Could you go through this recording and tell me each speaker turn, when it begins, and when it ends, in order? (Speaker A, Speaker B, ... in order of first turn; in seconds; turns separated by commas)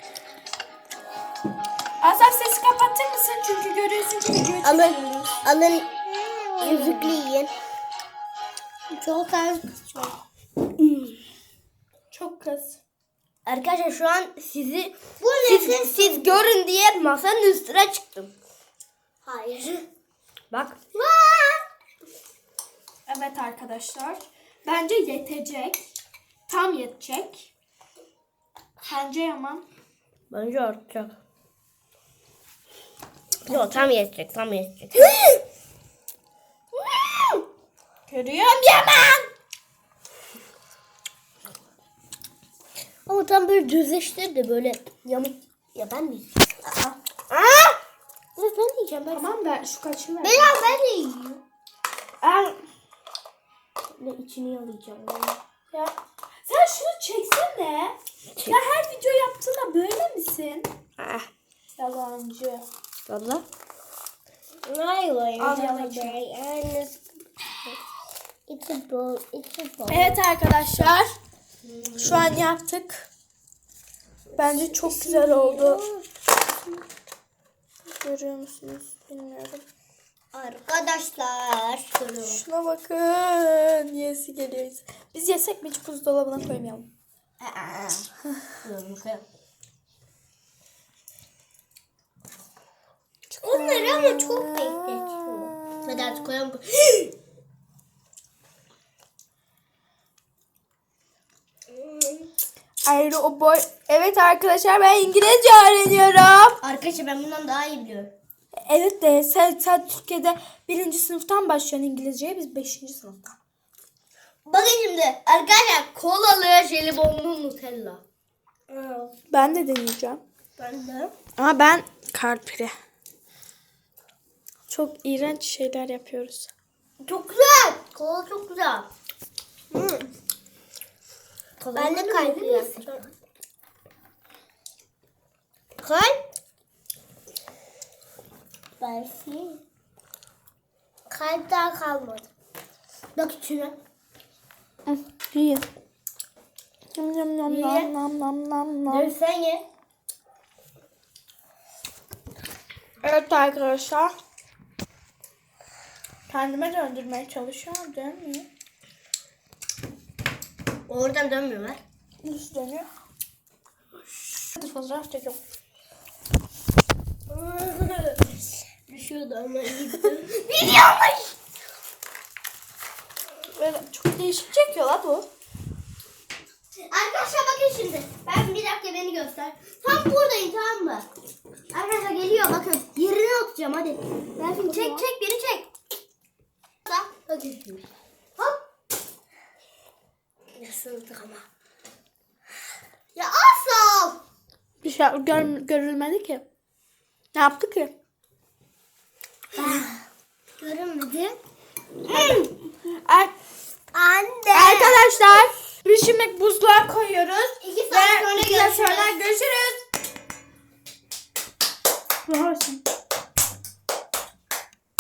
Speaker A: 2.0-5.4, Speaker B: 4.6-5.9, Speaker C: 6.1-7.1, Speaker B: 6.6-7.5, Speaker A: 6.8-7.1, Speaker C: 8.9-10.2, Speaker B: 10.8-11.1, Speaker A: 12.1-12.8, Speaker B: 13.4-18.3, Speaker C: 15.2-16.5, Speaker C: 19.2-19.9, Speaker B: 20.5-20.8, Speaker C: 20.9-21.6, Speaker A: 23.1-25.8, Speaker A: 26.5-27.5, Speaker A: 28.9-29.6, Speaker B: 30.3-31.1, Speaker B: 33.5-35.4, Speaker A: 33.5-33.9, Speaker B: 36.8-37.4, Speaker A: 38.1-39.3, Speaker B: 43.1-46.3, Speaker A: 46.6-47.0, Speaker B: 47.3-47.8, Speaker B: 48.4-49.3, Speaker A: 49.1-50.8, Speaker C: 50.2-51.3, Speaker A: 52.2-52.6, Speaker B: 54.0-55.4, Speaker A: 56.5-60.7, Speaker B: 61.0-61.3, Speaker A: 61.8-62.6, Speaker B: 63.0-63.4, Speaker B: 64.7-66.9, Speaker A: 65.4-66.2, Speaker C: 68.5-70.1, Speaker A: 69.9-71.1, Speaker B: 71.7-72.3, Speaker A: 72.0-73.1, Speaker A: 74.4-75.8, Speaker B: 74.4-75.7, Speaker C: 75.0-75.8, Speaker A: 77.9-79.6, Speaker B: 80.3-82.4, Speaker A: 82.2-86.9, Speaker B: 87.4-88.1, Speaker B: 88.6-89.2, Speaker A: 93.3-96.3, Speaker B: 93.4-97.1, Speaker C: 93.6-95.5, Speaker A: 102.8-106.6, Speaker B: 106.6-108.1, Speaker A: 108.7-113.4, Speaker B: 114.5-118.0, Speaker B: 118.7-119.1, Speaker A: 119.3-120.2, Speaker B: 120.6-121.1, Speaker A: 121.4-122.8, Speaker A: 124.7-126.5, Speaker B: 127.0-128.9, Speaker A: 129.7-130.1, Speaker B: 131.6-133.1, Speaker C: 131.7-133.0, Speaker B: 135.8-136.2, Speaker C: 138.8-139.6, Speaker C: 141.1-142.3, Speaker B: 143.2-143.8, Speaker A: 144.9-145.7, Speaker A: 146.9-149.1, Speaker B: 147.5-147.9, Speaker B: 148.9-149.7, Speaker A: 153.0-154.2, Speaker A: 156.3-158.5, Speaker B: 160.9-161.8, Speaker A: 162.2-162.9, Speaker A: 164.5-165.4, Speaker B: 167.3-168.3, Speaker B: 168.9-171.3, Speaker A: 173.6-175.3, Speaker B: 176.8-181.1, Speaker B: 181.7-185.7, Speaker A: 184.4-185.1, Speaker B: 186.9-187.9, Speaker B: 190.6-191.4, Speaker B: 193.2-194.2, Speaker A: 194.8-196.4, Speaker A: 197.3-197.9, Speaker C: 199.6-200.0, Speaker C: 200.6-201.4, Speaker B: 202.1-202.5, Speaker A: 202.1-203.3, Speaker C: 203.9-205.0, Speaker A: 204.5-209.8, Speaker C: 207.6-209.1, Speaker A: 212.3-212.8